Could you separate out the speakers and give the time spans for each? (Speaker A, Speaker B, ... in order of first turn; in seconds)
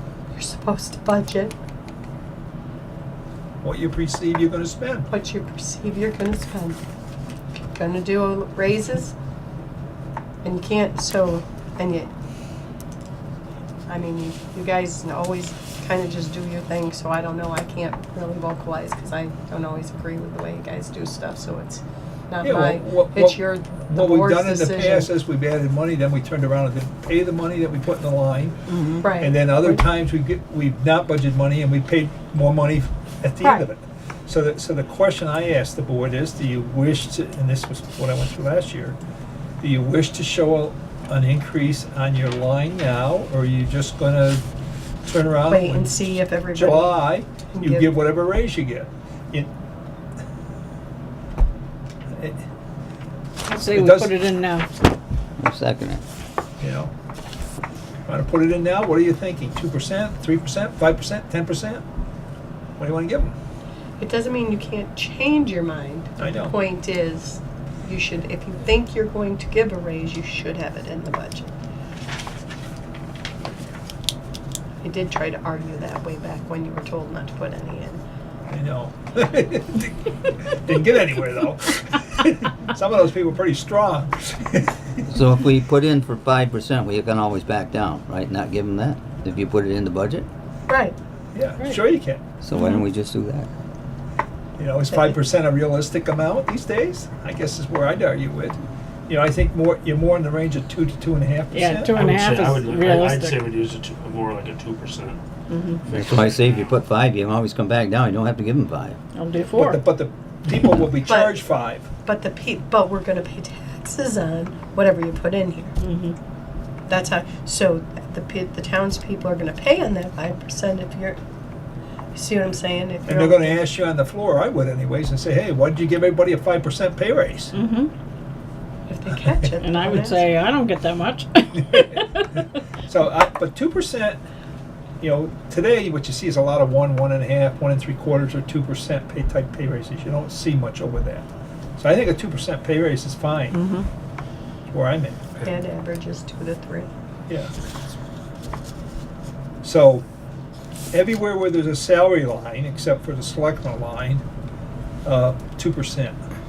Speaker A: 0.3-1.6, 5.1-6.8, 7.5-9.1, 10.4-12.1, 13.9-25.1, 29.0-29.5, 45.5-47.9, 64.0-71.5, 74.8-78.0, 90.7-91.0, 111.0-111.5, 112.0-115.8, 116.9-121.2, 122.1-123.7, 128.9-130.3, 145.4-146.9
Speaker B: 3.6-5.1, 22.4-28.6, 29.2-39.0, 39.6-44.5, 45.0-49.5, 52.1-52.4, 53.6-54.1, 56.6-56.9, 58.1-61.8, 62.8-63.4, 66.2-66.5, 78.5-85.0, 91.3-92.2, 94.6-102.3, 109.5-111.9, 123.1-127.5, 132.4-134.2, 135.0-141.2, 141.8-143.6, 144.7-145.3, 147.3-147.5, 149.6-150.0, 150.9-154.2, 155.1-156.2
Speaker C: 28.7-29.1, 53.5-54.7, 101.5-103.5, 105.5-105.8, 109.2-109.8, 115.8-116.2, 127.5-127.9, 129.6-132.3, 143.5-143.9
Speaker D: 55.4-56.0, 85.1-90.3, 92.4-93.5, 105.9-109.0
Speaker E: 101.9-105.2, 105.9-106.7